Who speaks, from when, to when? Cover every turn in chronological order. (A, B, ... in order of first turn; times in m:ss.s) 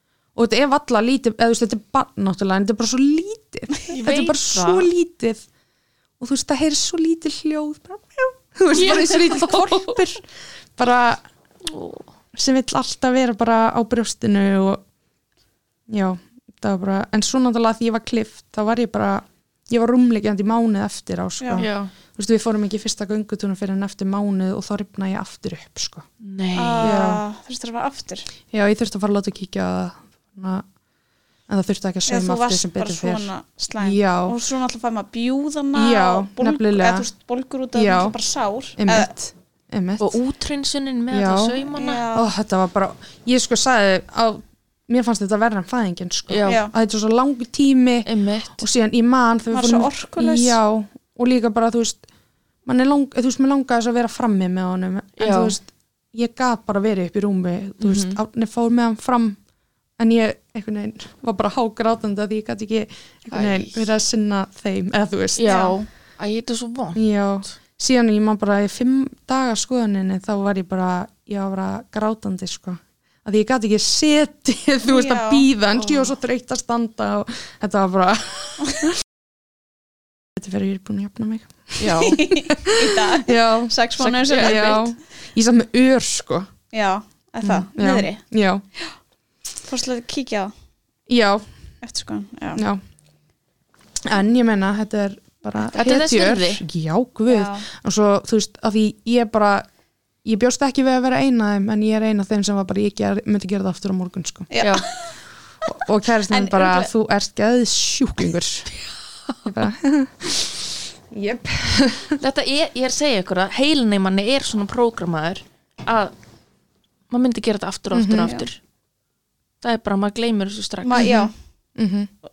0:00.3-0:05.4 A
0:03.9-0:04.9 B
0:06.2-0:10.2 A
0:08.7-0:10.0 B
0:10.8-0:11.2 A
0:11.6-0:12.1 B
0:12.3-0:14.8 A
0:15.9-0:26.0 A
0:21.4-0:21.6 C
0:21.6-0:21.9 B
0:26.2-0:27.0 B
0:26.5-0:28.3 C
0:26.8-0:27.2 A
0:28.5-0:30.6 A
0:31.5-0:34.3 A
0:32.1-0:39.1 C
0:35.7-0:37.1 A
0:37.7-0:38.2 A
0:38.8-0:40.2 A
0:40.0-0:42.0 B
0:41.1-0:48.1 A
0:41.7-0:42.3 C
0:46.3-0:46.6 B
0:46.4-0:46.7 C
0:48.0-0:48.6 B
0:48.6-0:52.0 A
0:49.5-0:50.6 C
0:52.6-0:59.4 A
0:55.2-0:55.5 B
0:57.8-0:58.2 B
1:00.0-1:05.5 A
1:03.3-1:03.8 B
1:05.4-1:07.0 B
1:05.4-1:05.8 C
1:06.9-1:19.0 A
1:14.8-1:15.4 C
1:15.7-1:16.1 B
1:20.4-1:23.7 A
1:21.8-1:22.2 B
1:21.9-1:24.9 C
1:24.0-1:24.8 B
1:24.3-1:26.5 A
1:26.7-1:28.2 C
1:27.4-1:28.6 A
1:29.6-1:30.5 C
1:31.1-1:31.4 A
1:31.8-1:32.6 C
1:32.6-1:32.8 A
1:34.0-1:39.6 A
1:35.7-1:36.6 B
1:37.3-1:37.6 C
1:40.2-1:44.5 A
1:44.5-1:45.1 C
1:44.6-1:44.8 B
1:45.6-1:48.7 A
1:46.3-1:46.9 C
1:49.4-1:52.2 A
1:52.2-1:56.1 B
1:57.1-1:58.6 B
1:57.9-1:58.3 A
1:59.6-2:01.2 B
2:00.8-2:01.3 C
2:01.0-2:01.2 A
2:01.8-2:02.1 A